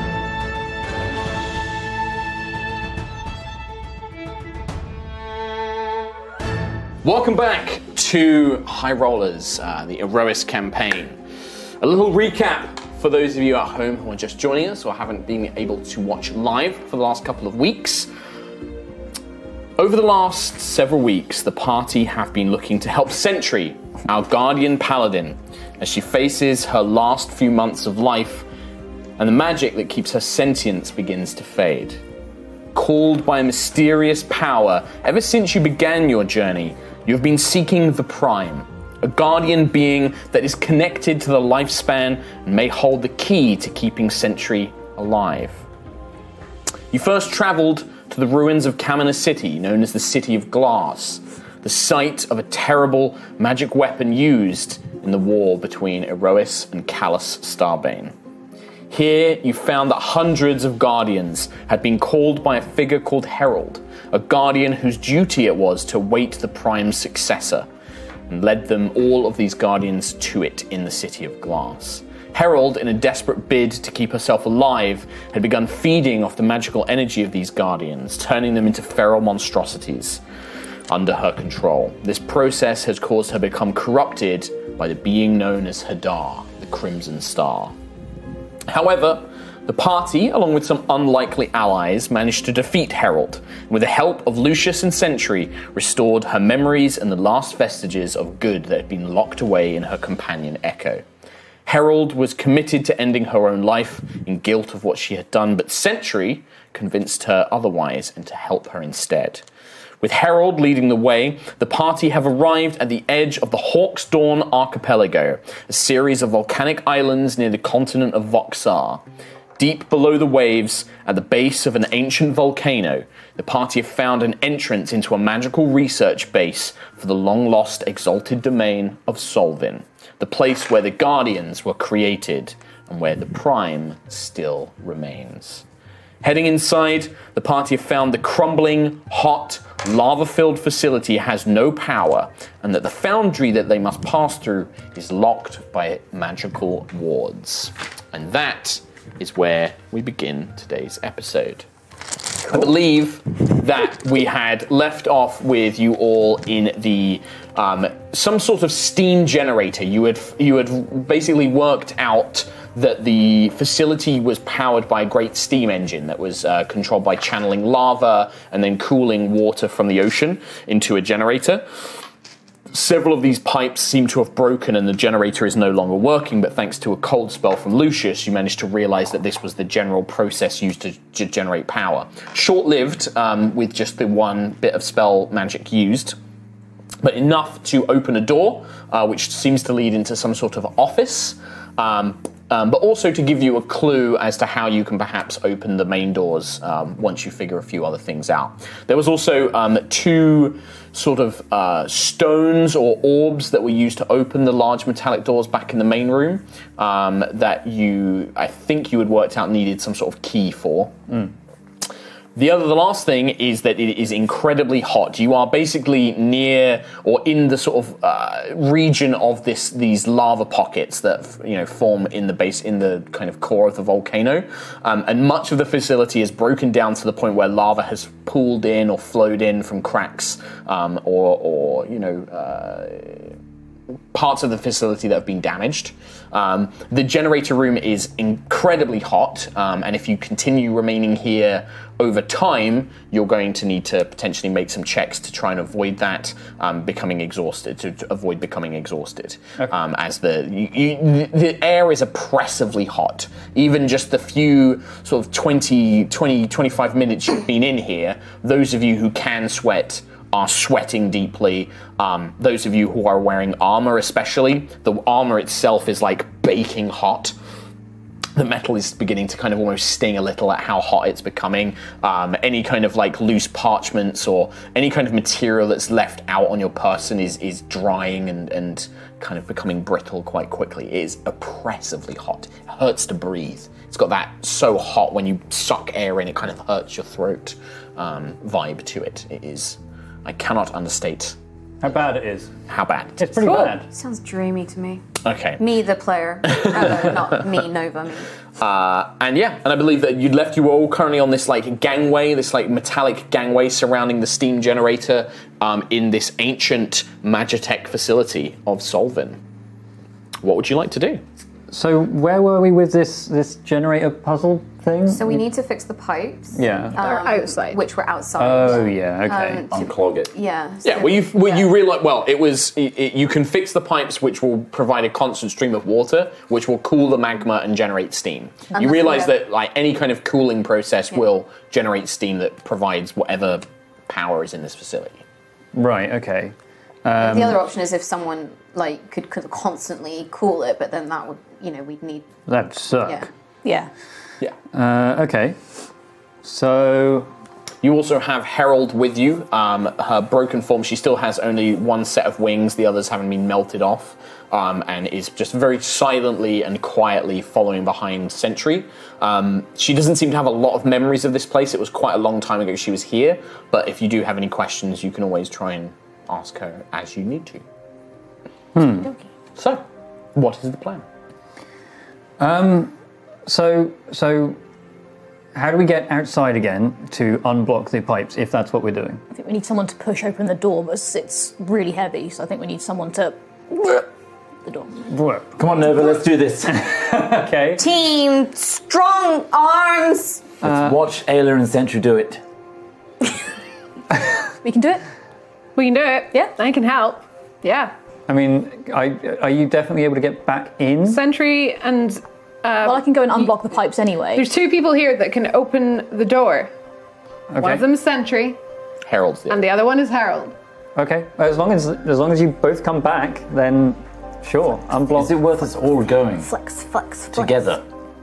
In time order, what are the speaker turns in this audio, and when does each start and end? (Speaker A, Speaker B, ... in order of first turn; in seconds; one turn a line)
Speaker A: 7.0-11.2
Speaker A: 11.8-18.1
Speaker A: 19.8-28.4
Speaker A: 29.2-32.0
Speaker A: 32.7-45.6
Speaker A: 46.9-58.1
Speaker A: 58.9-67.7
Speaker A: 68.3-80.2
Speaker A: 80.9-87.7
Speaker A: 88.7-101.0
Speaker A: 101.7-109.4
Speaker A: 110.0-119.0
Speaker A: 119.6-135.6
Speaker A: 136.2-151.7
Speaker A: 152.4-171.6
Speaker A: 172.7-186.2
Speaker A: 187.0-211.3
Speaker A: 212.3-233.3
Speaker A: 234.1-267.4
Speaker A: 268.4-291.4
Speaker B: 291.8-292.5
Speaker A: 292.7-293.7
Speaker B: 293.2-293.9
Speaker C: 293.4-293.7
Speaker D: 293.9-295.0
Speaker A: 295.2-295.6
Speaker D: 295.6-298.3
Speaker A: 296.5-297.2
Speaker A: 298.6-309.4
Speaker A: 310.4-311.2
Speaker B: 311.7-315.4
Speaker D: 315.1-321.7
Speaker B: 316.6-317.0
Speaker C: 316.9-317.8
Speaker B: 318.4-319.6
Speaker A: 319.7-320.3
Speaker A: 320.8-335.2
Speaker D: 328.7-329.3
Speaker B: 335.7-337.6
Speaker D: 337.2-342.3
Speaker B: 342.5-343.2
Speaker D: 343.0-343.3
Speaker E: 343.6-343.9
Speaker B: 344.7-345.6
Speaker B: 346.4-347.3
Speaker A: 347.8-367.6
Speaker B: 368.8-369.1
Speaker A: 369.6-369.8
Speaker A: 370.4-371.0
Speaker B: 372.4-372.9
Speaker B: 373.5-374.6
Speaker B: 375.5-379.2
Speaker E: 379.3-384.1
Speaker E: 384.7-384.9
Speaker B: 385.1-385.5
Speaker F: 385.6-387.2
Speaker B: 386.8-387.8
Speaker D: 387.8-390.4
Speaker F: 390.6-392.4
Speaker B: 390.6-390.9
Speaker E: 394.6-395.0
Speaker C: 395.8-397.9
Speaker B: 398.3-401.2
Speaker C: 401.1-403.5
Speaker E: 402.8-404.5
Speaker C: 404.4-406.7
Speaker C: 407.5-408.6
Speaker B: 407.5-407.9
Speaker A: 409.1-409.7
Speaker C: 409.5-410.5
Speaker B: 411.0-415.4
Speaker F: 415.1-416.5
Speaker D: 416.4-417.6
Speaker F: 417.3-417.8